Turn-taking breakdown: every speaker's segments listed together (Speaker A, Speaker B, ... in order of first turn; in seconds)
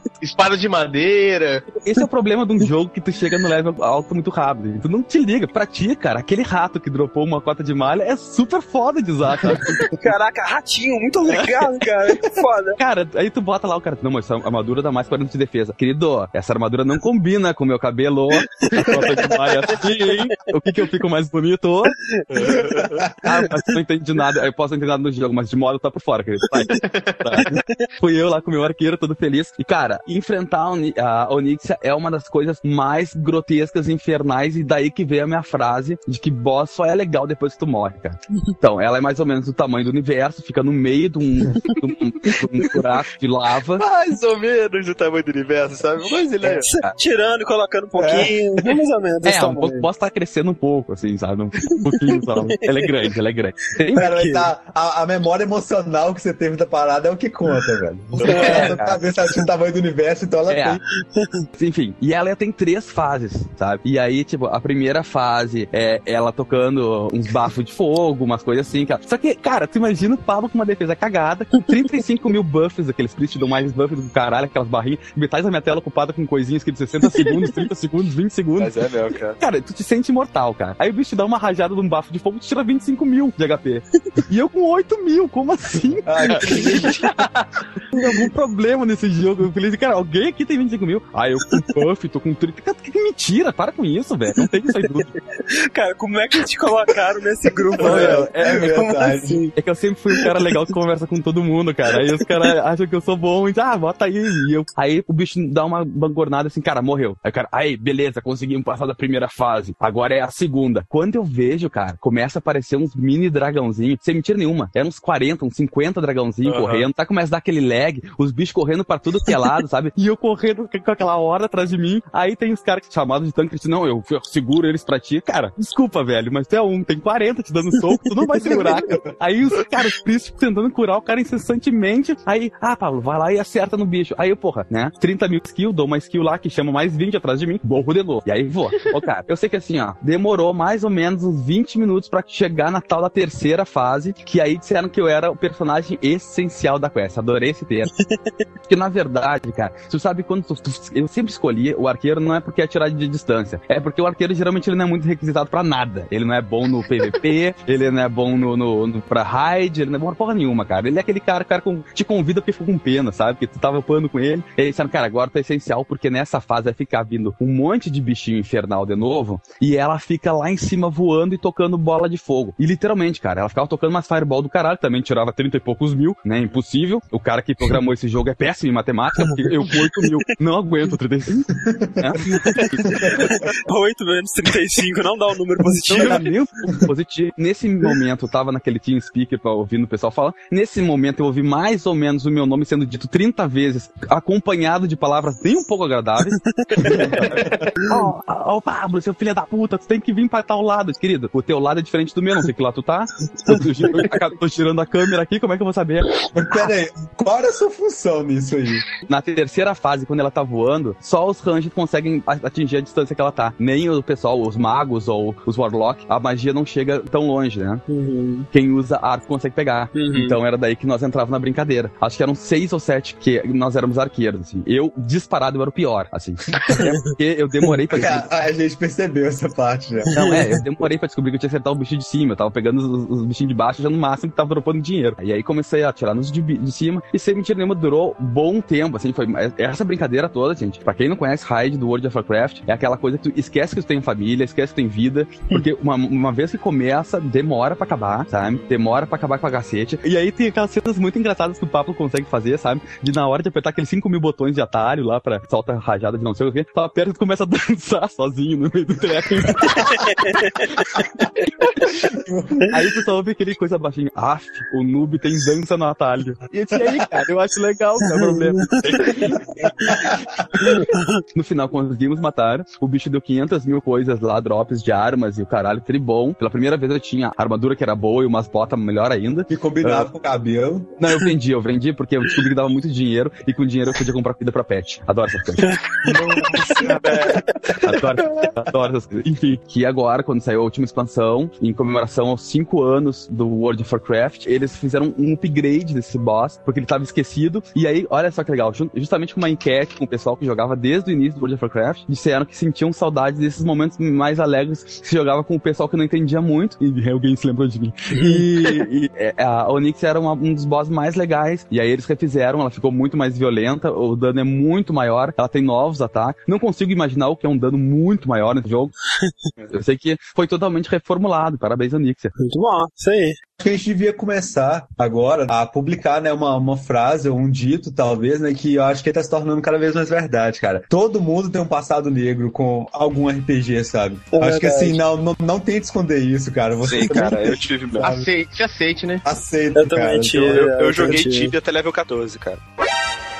Speaker A: 0.2-1.6, 26.8-27.3, 338.0-339.2
Speaker B: 1.8-9.9, 12.8-22.1, 23.2-43.8, 49.2-54.0, 58.1-59.0, 60.5-60.8, 61.5-78.8, 79.4-95.1, 97.8-98.7, 99.5-147.9, 148.7-183.4, 185.9-206.2, 209.1-217.8, 218.5-228.3, 230.1-262.0, 262.7-270.0, 270.6-280.1, 281.0-285.9, 287.8-318.9, 319.7-322.3
Speaker C: 10.0-12.8, 18.7-18.9, 46.6-49.9, 53.9-54.5, 58.3-58.7, 61.1-61.5, 86.4-86.8, 94.8-99.5, 100.2-100.5, 102.0-102.4, 147.9-148.4, 179.2-180.1, 182.3-186.2, 196.4-197.0, 203.4-203.9, 217.9-218.5, 219.9-220.4, 226.7-226.9, 230.1-230.6, 260.0-260.7, 268.3-269.1, 270.6-271.2, 285.6-286.1, 308.1-308.4, 322.4-323.4, 334.3-335.0, 339.7-341.5
Speaker D: 22.3-23.0, 43.8-46.7, 78.6-79.4, 86.3-86.9, 116.4-116.9, 286.0-287.4, 336.8-338.1, 340.5-342.6
Speaker E: 22.4-23.2, 48.0-48.4, 53.9-60.8, 86.0-87.0, 97.5-99.4, 128.3-129.1, 181.5-182.2, 182.8-183.3, 185.9-186.9, 196.8-197.7, 206.3-208.8, 227.9-230.1, 260.9-261.2, 261.9-262.7, 266.8-267.1, 269.3-270.7, 279.5-281.0, 286.6-288.4, 323.6-338.3, 339.2-340.6